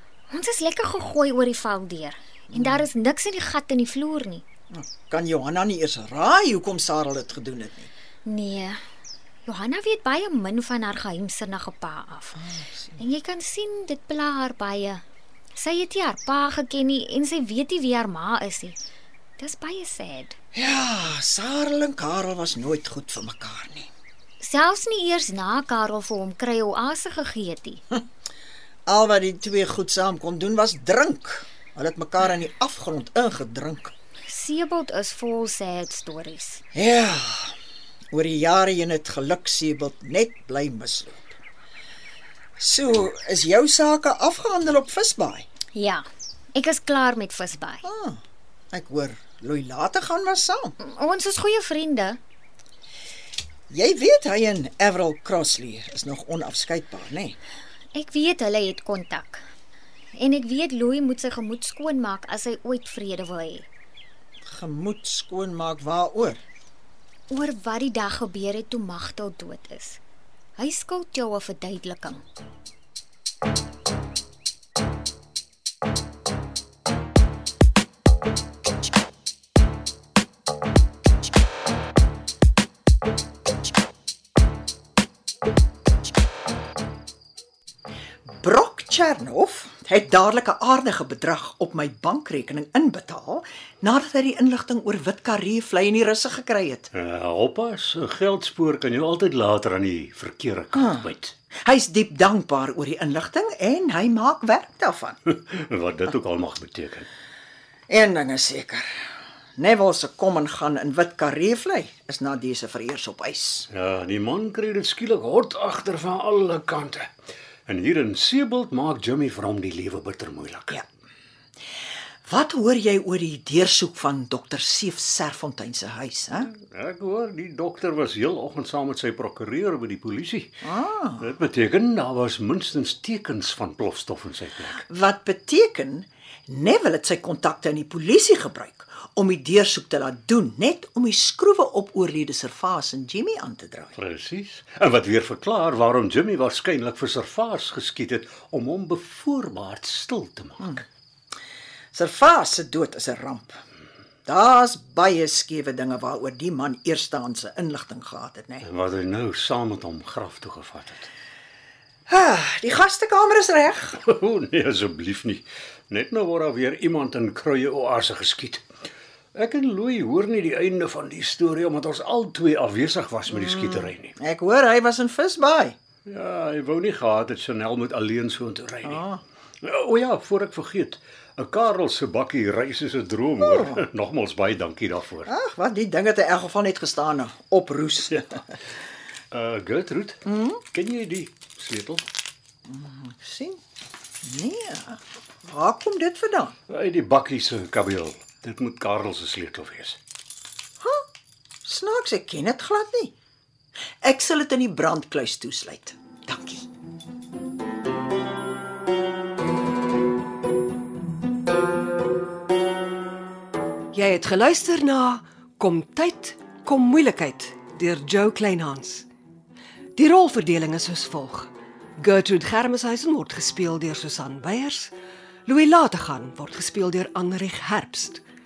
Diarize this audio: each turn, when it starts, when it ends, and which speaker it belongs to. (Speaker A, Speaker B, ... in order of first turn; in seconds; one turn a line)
Speaker A: 0.3-4.4
Speaker B: 2.5-2.9
Speaker B: 4.7-7.9
Speaker A: 8.3-8.8
Speaker A: 9.5-12.4
Speaker B: 12.4-13.0
Speaker A: 13.0-15.0
Speaker A: 15.6-18.8
Speaker A: 19.4-20.4
Speaker B: 20.5-23.9
Speaker A: 24.4-27.8
Speaker B: 28.9-33.9
Speaker A: 34.3-36.6
Speaker B: 36.7-37.5
Speaker B: 38.1-41.4
Speaker B: 42.6-45.5
Speaker A: 45.8-47.8
Speaker B: 47.8-48.2
Speaker B: 48.7-50.8
Speaker A: 50.8-52.2
Speaker B: 53.7-57.4
Speaker A: 58.0-59.4
Speaker A: 60.2-63.7
Speaker B: 64.5-66.4
Speaker A: 67.3-70.0
Speaker A: 70.6-72.2
Speaker B: 88.4-96.9
Speaker C: 96.9-101.3
Speaker B: 100.7-101.1
Speaker B: 101.6-105.2
Speaker C: 105.3-107.1
Speaker B: 107.9-108.9
Speaker B: 109.6-113.7
Speaker C: 113.7-117.1
Speaker C: 117.7-120.8
Speaker B: 122.3-126.5
Speaker C: 126.7-130.5
Speaker B: 130.6-131.3
Speaker C: 131.2-134.8
Speaker B: 134.9-143.9
Speaker C: 144.0-150.8
Speaker B: 151.9-153.6
Speaker B: 154.3-158.7
Speaker C: 158.6-161.1
Speaker B: 162.1-164.0
Speaker C: 164.1-168.6
Speaker C: 169.4-174.1
Speaker B: 173.3-175.8
Speaker C: 176.1-179.0
Speaker B: 178.8-179.2
Speaker C: 179.6-185.3
Speaker B: 183.4-183.8
Speaker B: 185.3-188.2
Speaker C: 189.3-190.2
Speaker B: 190.3-190.6
Speaker C: 190.7-192.0
Speaker B: 192.7-193.6
Speaker B: 194.2-196.5
Speaker C: 196.7-200.0
Speaker B: 201.7-203.1
Speaker B: 204.0-206.6
Speaker D: 213.9-219.1
Speaker D: 220.0-224.9
Speaker D: 225.5-228.2